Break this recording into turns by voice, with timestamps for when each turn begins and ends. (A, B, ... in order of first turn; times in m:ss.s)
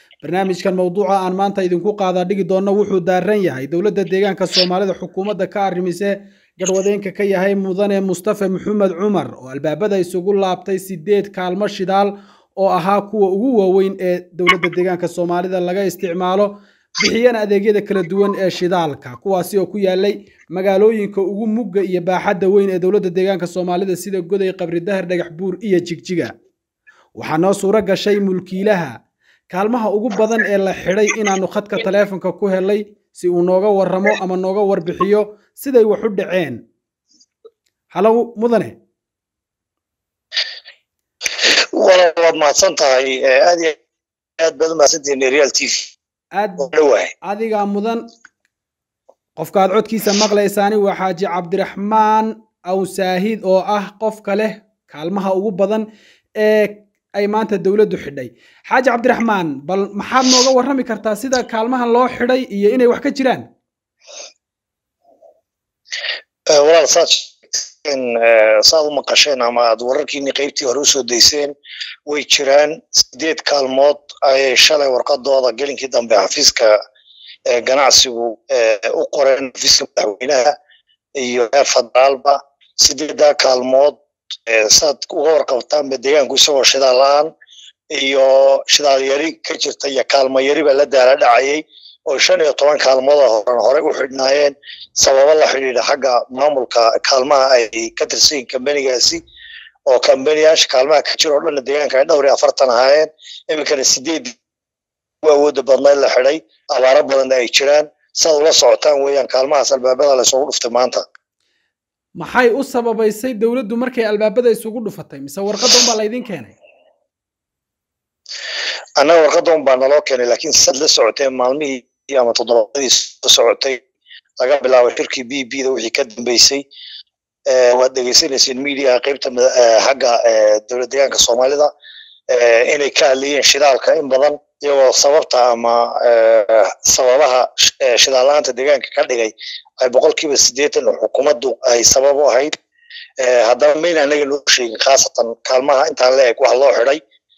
0:00.2-0:26.3 A
0:27.2-0:29.0 A
0:29.5-0:36.6 A
0:37.9-0:38.7 A
0:41.5-0:43.8 B
0:44.4-0:45.9 B
0:46.4-0:46.7 A
0:46.6-0:47.1 B
0:47.2-0:48.0 A
0:49.4-0:55.8 A
0:56.4-1:03.4 A
1:06.5-1:11.5 B
1:12.1-1:16.8 B
1:17.5-1:20.5 B
1:21.2-1:27.3 B
1:27.9-1:39.2 B
1:39.9-1:44.3 B
1:45.2-1:51.0 B
1:52.2-1:56.5 A
1:59.0-2:03.8 B
2:04.4-2:06.6 B
2:07.5-2:11.7 B
2:12.3-2:22.5 B
2:23.2-2:27.0 B